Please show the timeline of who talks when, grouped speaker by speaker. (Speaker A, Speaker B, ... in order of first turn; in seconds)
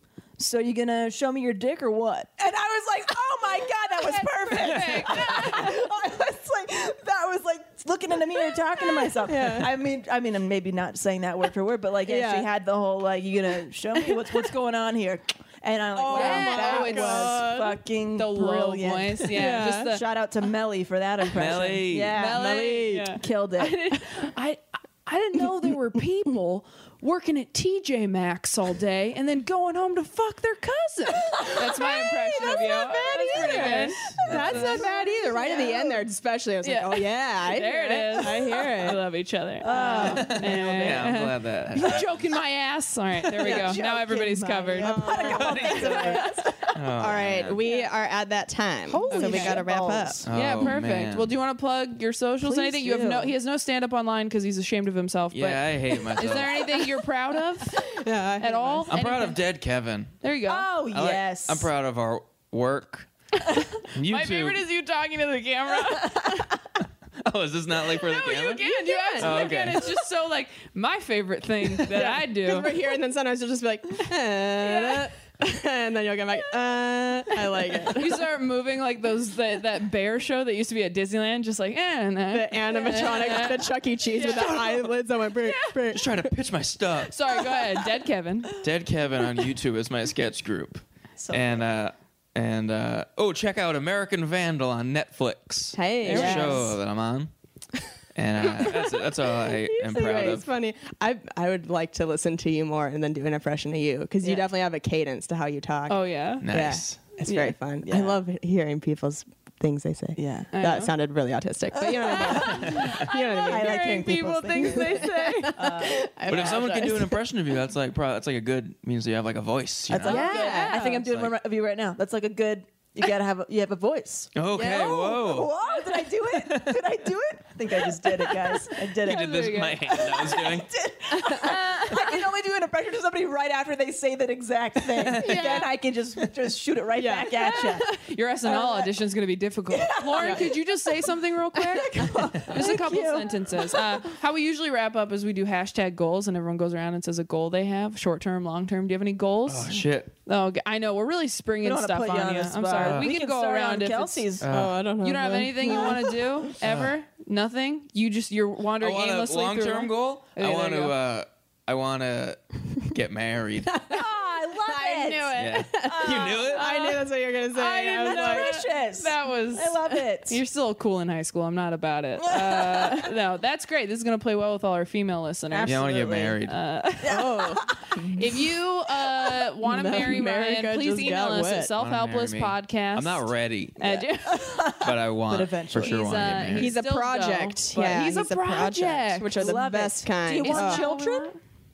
Speaker A: 0.4-23.9, 31.5-36.0, 39.6-41.0, 43.4-46.7, 48.9-50.3, 52.4-53.3, 60.5-61.7, 66.0-66.5, 91.2-91.6, 96.1-96.7, 107.9-108.2, 110.2-110.5, 111.7-112.9, 113.4-116.8, 119.9-137.9, 138.5-138.9, 139.7-141.1, 141.7-143.7, 151.6-154.5, 163.9-167.0, 167.5-170.4, 172.2-173.1, 175.5-176.4, 177.0-178.2, 184.3-186.0, 189.3-191.3
Speaker B: 3.8-5.9, 16.1-20.1, 22.1-34.9, 35.5-35.8, 36.6-46.4, 49.0-59.4, 60.2-60.8, 64.0-66.5, 68.0-72.8, 74.6-75.1, 77.8-84.8, 85.4-85.8, 87.1-88.6, 96.2-96.6, 105.9-106.5, 107.3-107.5, 110.5-110.9, 112.3-115.8, 120.1-121.0, 125.7-126.1, 129.0-130.1, 131.3-132.2, 137.5-154.3, 155.0-160.9, 168.0-177.2, 178.0-184.8, 185.8-191.4
Speaker C: 4.7-5.3, 21.3-22.2, 34.2-34.8, 40.3-42.4, 45.2-47.6, 50.3-51.3, 55.3-56.9, 58.9-60.2, 60.9-63.1, 63.9-64.7, 67.2-70.0, 85.9-87.1, 88.6-97.3, 98.2-100.5, 106.4-107.2, 112.7-113.0, 116.3-121.4, 124.3-125.5, 126.3-126.9, 129.1-130.7, 135.0-135.7, 149.5-150.1, 152.8-153.1, 154.4-154.8, 156.6-156.9, 158.8-163.7, 165.3-166.8, 175.7-176.6, 181.8-184.1, 184.8-186.8
Speaker D: 8.8-9.7, 12.1-12.5, 15.9-17.8, 19.3-20.0, 22.3-23.2, 32.4-39.0, 39.8-40.3, 43.5-43.7, 44.8-46.4, 46.9-50.3, 57.8-58.9, 68.9-69.5, 71.7-78.3, 82.3-86.3, 95.7-96.7, 98.4-117.2, 120.1-120.8, 124.5-125.2, 135.2-135.7, 137.0-137.9, 140.2-140.4, 142.7-143.3, 154.5-156.5, 163.7-164.1, 164.6-168.6, 177.1-178.0, 179.6-181.7, 186.6-190.8